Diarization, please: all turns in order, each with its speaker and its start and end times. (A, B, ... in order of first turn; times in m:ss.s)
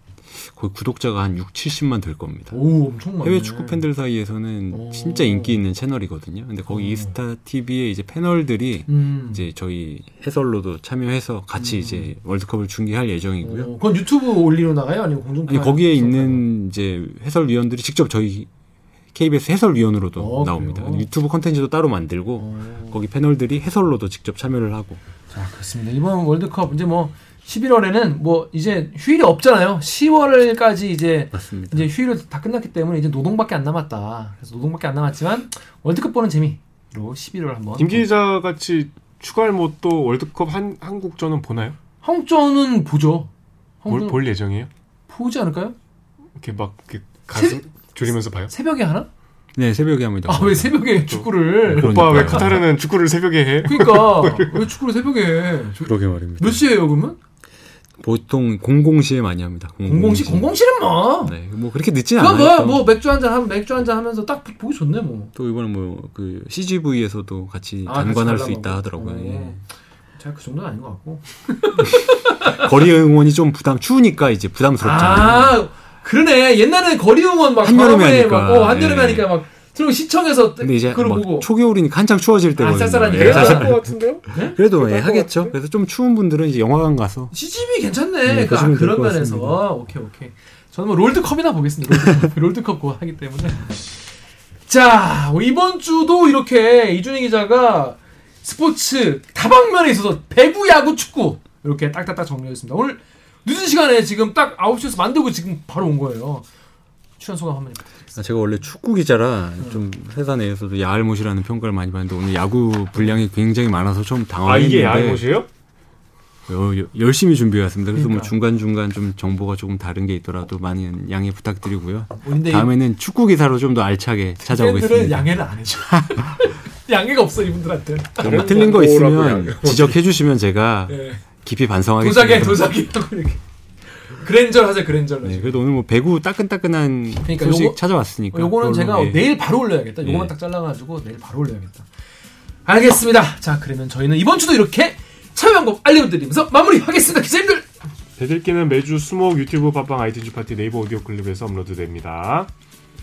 0:00.3-0:02.6 A
0:02.5-0:03.8 B
0:03.2-0:13.7 A
0:04.7-0:05.6 B
0:06.7-0:07.1 B
0:08.9-0:09.4 B
0:11.6-0:12.1 B
0:13.4-0:16.4 B
0:15.4-0:18.5 A
0:19.1-0:25.0 A
0:20.2-0:21.1 B
0:22.4-0:23.0 B
0:25.3-0:38.1 B
0:31.3-0:31.9 A
0:37.8-0:41.8 C
0:42.0-0:43.3 B
0:43.8-0:44.2 B
0:43.9-0:44.7 C
0:45.1-0:45.8 B
0:46.4-0:48.5 C
0:47.3-0:47.6 B
0:48.5-0:49.1 B
0:49.6-0:50.9 A
0:50.3-0:52.6 B
0:51.1-0:54.7 C
0:51.6-0:52.6 A
0:53.6-0:57.2 B
0:55.8-0:56.7 A
0:58.0-1:00.5 A
0:59.8-1:01.4 B
1:01.2-1:02.9 A
1:02.2-1:05.3 B
1:05.3-1:09.6 A
1:07.8-1:09.6 B
1:10.2-1:12.7 B
1:12.4-1:15.6 A
1:14.8-1:21.5 B
1:17.6-1:19.3 A
1:20.6-1:27.3 A
1:22.5-1:23.8 B
1:23.1-1:24.2 C
1:24.3-1:25.0 B
1:24.9-1:25.5 C
1:27.3-1:33.9 B
1:28.2-1:29.6 A
1:34.7-1:46.4 B
1:47.2-1:48.2 B
1:48.2-1:55.2 A
1:49.6-1:49.8 B
1:54.4-1:55.5 C
1:56.5-2:05.3 A
1:57.9-1:58.3 B
2:02.2-2:02.7 B
2:04.4-2:08.8 B
2:05.9-2:06.4 A
2:08.2-2:10.0 C
2:08.2-2:12.7 A
2:10.9-2:11.2 B
2:12.0-2:15.6 B
2:15.2-2:19.4 A
2:17.2-2:17.8 B
2:18.3-2:21.9 B
2:20.0-2:20.3 A
2:22.6-2:27.7 B
2:28.2-2:32.5 C